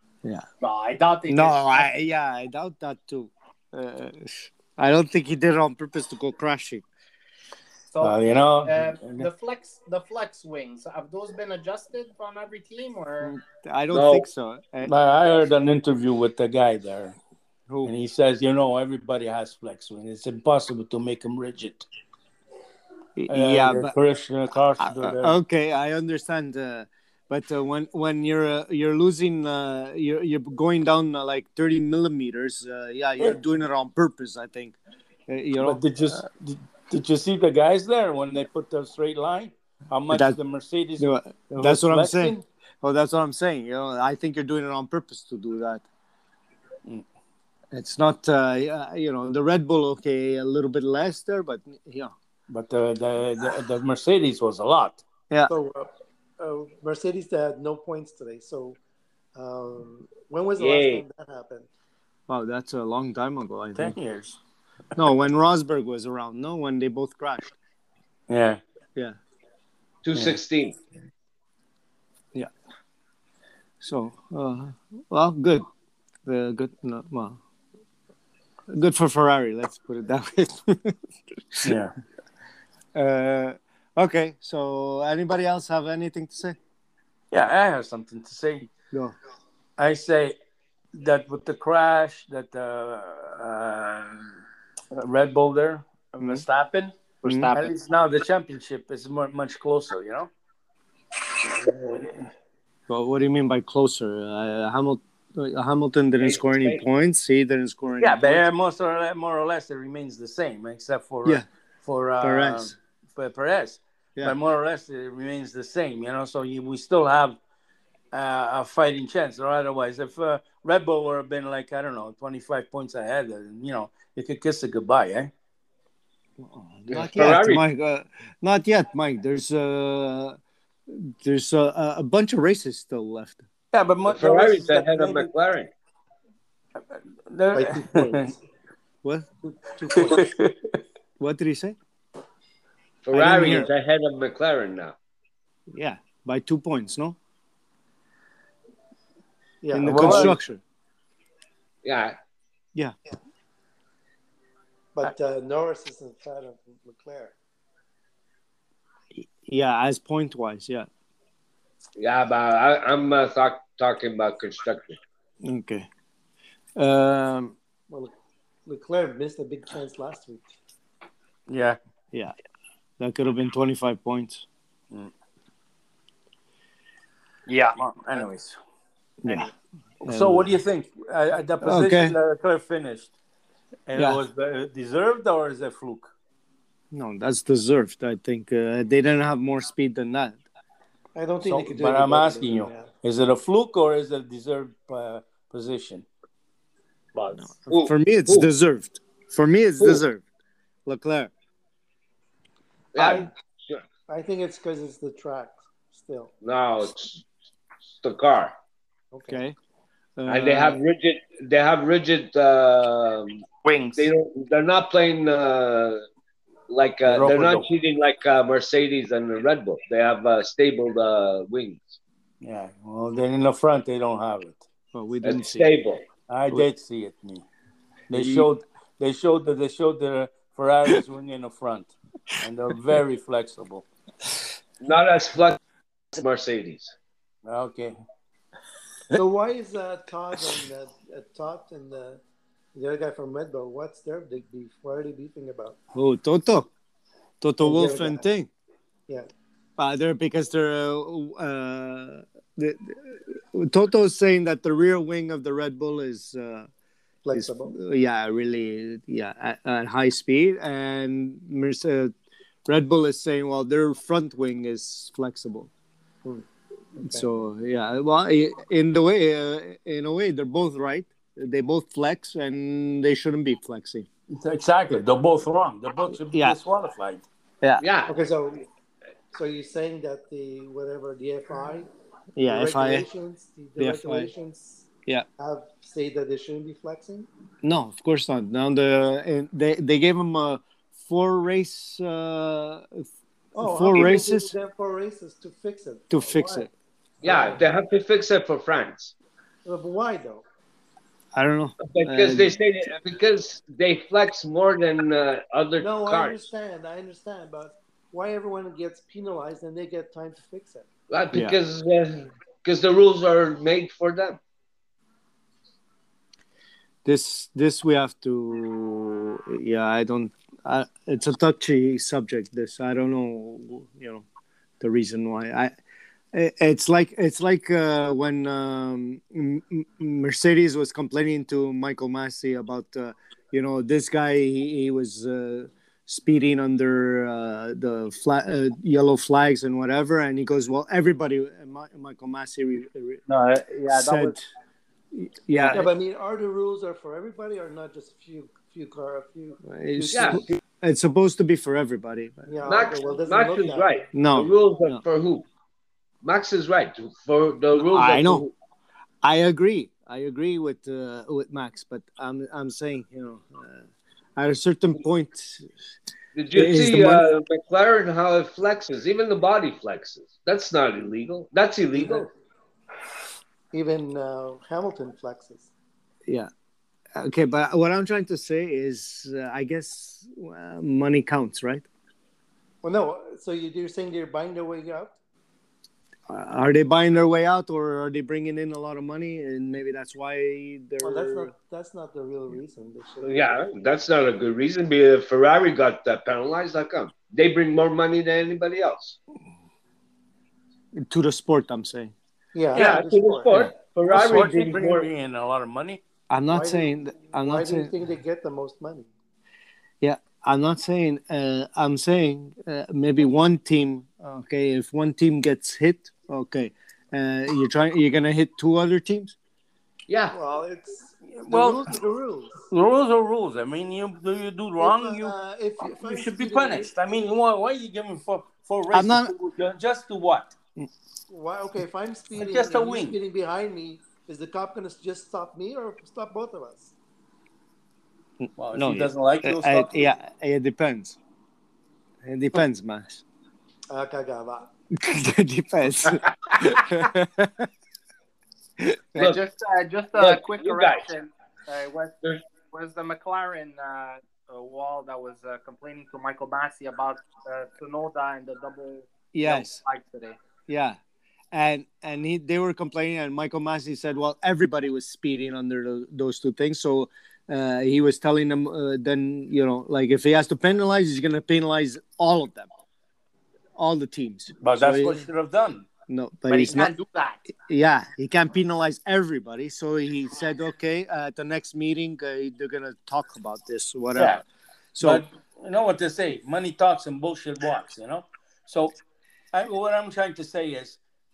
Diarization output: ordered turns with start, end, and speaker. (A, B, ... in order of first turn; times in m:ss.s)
0:00.6-0:01.9 A
0:01.3-0:06.8 B
0:07.9-0:13.4 A
0:08.0-0:09.3 C
0:13.2-0:14.9 B
0:13.9-0:14.2 D
0:14.8-0:17.2 C
0:17.7-0:17.9 B
0:17.8-0:21.9 C
0:23.2-0:23.9 B
0:23.3-0:25.4 C
0:24.8-0:34.8 B
0:35.3-0:36.2 B
0:35.6-0:42.4 C
0:40.1-0:40.4 B
0:41.0-0:45.8 B
0:47.7-0:52.1 B
0:52.5-0:55.0 C
0:55.5-0:58.8 E
0:59.4-1:01.7 E
1:00.6-1:01.0 D
1:02.3-1:04.0 B
1:03.7-1:04.4 C
1:05.0-1:07.5 B
1:08.3-1:08.6 C
1:10.0-1:10.8 D
1:13.8-1:15.6 B
1:16.2-1:17.4 B
1:18.7-1:21.0 B
1:21.5-1:21.8 B
1:21.6-1:21.9 C
1:22.9-1:26.6 B
1:27.3-1:28.7 C
1:29.8-1:30.4 C
1:30.9-1:34.4 C
1:34.9-1:36.9 C
1:36.2-1:36.4 B
1:37.2-1:37.7 A
1:37.2-1:37.5 B
1:37.5-1:40.3 C
1:41.4-1:42.3 C
1:42.9-1:48.4 B
1:46.2-1:46.8 D
1:48.0-1:57.4 C
1:52.2-1:52.7 B
1:58.1-2:05.3 C
2:06.4-2:10.4 B
2:06.9-2:07.6 D
2:10.9-2:13.4 B
2:13.7-2:15.3 C
2:14.1-2:15.7 D
2:17.3-2:18.3 C
2:17.5-2:18.4 E
2:19.0-2:20.3 B
2:19.9-2:20.5 C
2:21.2-2:21.8 B
2:23.0-2:25.0 D
2:23.1-2:23.7 B
2:25.7-2:27.2 B
2:29.6-2:30.4 E
2:29.7-2:30.6 B
2:29.8-2:30.4 C
2:31.8-2:32.2 D
2:34.9-2:37.3 E
2:39.2-2:40.9 B
2:42.0-2:45.0 D
2:45.4-2:45.9 B
2:46.8-2:47.6 B
2:48.6-2:50.5 E
2:51.5-2:51.8 C
2:53.0-2:54.4 B
2:57.5-2:58.2 A
2:57.8-2:58.6 C
2:59.2-2:59.5 B
3:00.0-3:00.5 B
3:00.0-3:03.1 C
3:01.6-3:02.2 B
3:03.9-3:06.1 C
3:03.9-3:04.2 B
3:06.9-3:10.4 B
3:11.1-3:12.9 E
3:11.4-3:16.0 C
3:17.4-3:20.2 B
3:17.7-3:18.5 D
3:20.9-3:21.3 B
3:22.9-3:23.8 D
3:24.1-3:26.3 E
3:26.4-3:27.2 D
3:28.0-3:28.5 D
3:29.1-3:29.4 E
3:29.3-3:29.6 B
3:30.2-3:30.8 B
3:30.3-3:36.0 D
3:33.6-3:34.1 A
3:36.7-3:42.0 D
3:37.0-3:37.6 C
3:42.4-3:44.6 C
3:44.9-3:45.7 B
3:45.2-3:46.0 D
3:46.3-3:47.4 C
3:48.1-3:53.8 C
3:48.1-3:48.5 B
3:54.8-3:55.6 D
3:56.1-3:56.9 D
3:57.4-3:57.9 C
3:59.1-4:02.2 E
4:02.7-4:05.8 E
4:05.9-4:06.7 B
4:07.4-4:08.5 B
4:07.6-4:08.2 E
4:09.8-4:16.7 B
4:17.2-4:17.7 E
4:17.3-4:22.1 B
4:22.6-4:25.7 B
4:26.2-4:27.3 E
4:27.0-4:34.1 B
4:34.3-4:37.2 C
4:36.3-4:36.6 B
4:37.8-4:38.1 D
4:38.1-4:38.7 E
4:39.3-4:41.9 E
4:42.4-4:43.0 B
4:42.4-4:44.9 E
4:43.8-4:44.3 B
4:45.4-4:47.3 E
4:47.6-4:53.0 B
4:53.5-4:56.7 E
4:53.6-4:54.5 B
4:56.1-4:56.7 B
4:57.2-4:57.6 E
4:57.2-4:59.1 D
4:59.6-5:00.4 E
5:01.3-5:02.6 B
5:01.8-5:06.5 D
5:05.8-5:10.9 E
5:11.1-5:14.4 D
5:17.0-5:24.2 B
5:24.8-5:25.7 B
5:26.3-5:43.2 B
5:43.3-5:44.4 A
5:43.9-5:44.4 B
5:45.1-5:45.9 B
5:45.7-5:50.4 E
5:49.6-5:52.5 B
5:50.1-5:50.4 D
5:52.5-5:53.9 E
5:52.6-5:55.4 D
5:54.1-5:55.0 B
5:56.2-5:58.5 D
5:57.7-5:58.4 B
5:59.2-6:03.8 B
6:04.4-6:05.7 B
6:06.4-6:12.3 D
6:06.5-6:07.2 B
6:12.0-6:12.2 E
6:13.7-6:15.7 E
6:17.2-6:21.8 B
6:22.8-6:25.1 E
6:26.3-6:31.5 B
6:31.0-6:33.5 E
6:33.2-6:39.2 D
6:41.0-6:42.1 B
6:42.5-6:43.7 E
6:42.7-6:43.0 C
6:42.7-6:45.1 D
6:44.0-6:46.0 C
6:46.3-6:47.9 B
6:46.5-6:49.1 E
6:50.0-6:59.3 B
7:00.1-7:00.4 D
7:00.3-7:02.6 E
7:01.4-7:01.9 C
7:02.7-7:10.5 C
7:04.8-7:06.9 E
7:08.9-7:09.3 B
7:11.3-7:16.9 E
7:12.4-7:13.2 C
7:18.4-7:21.2 B
7:18.6-7:20.1 C
7:22.2-7:23.2 B
7:23.9-7:24.7 E
7:25.0-7:27.7 B
7:28.8-7:29.3 B
7:29.2-7:29.4 D
7:29.2-7:32.1 A
7:30.2-7:31.1 D
7:32.7-7:40.4 A
7:39.3-7:39.8 B
7:40.7-7:41.0 B
7:41.5-7:52.7 B
7:53.8-7:55.3 B
7:54.6-7:55.9 C
7:56.1-7:56.9 B
7:56.5-7:57.4 A
7:57.6-8:04.4 B
8:04.1-8:04.4 C
8:05.0-8:05.2 B
8:05.0-8:09.0 C
8:09.5-8:11.0 C